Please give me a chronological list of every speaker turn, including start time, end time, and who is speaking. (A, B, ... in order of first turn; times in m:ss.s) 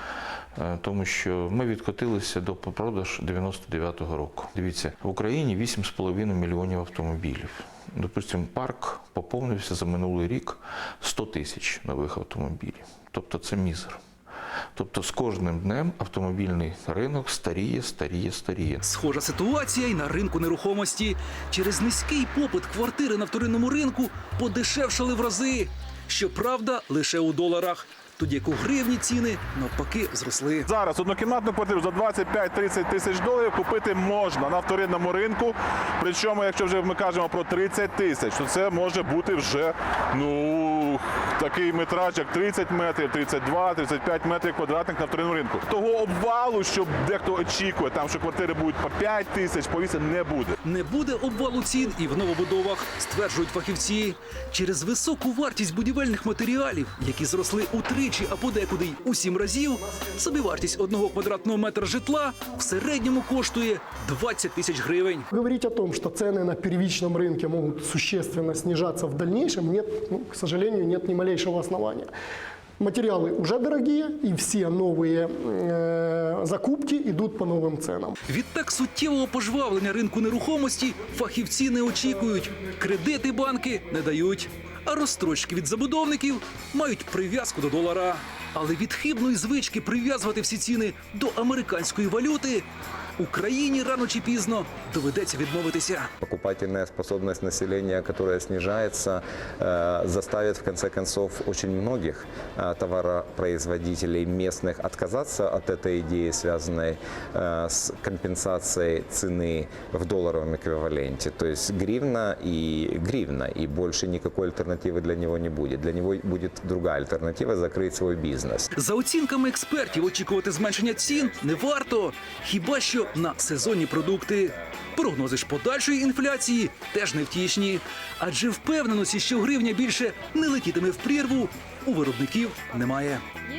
0:00.6-0:14.0 A
0:14.8-0:18.8 A
0:18.8-0:30.7 B
0:30.7-0:50.5 C
0:50.6-1:05.3 B
1:05.3-1:12.1 D
1:12.8-1:18.1 D
1:18.3-1:32.7 B
1:33.2-1:36.1 B
1:36.2-1:58.7 E
1:58.8-2:13.2 B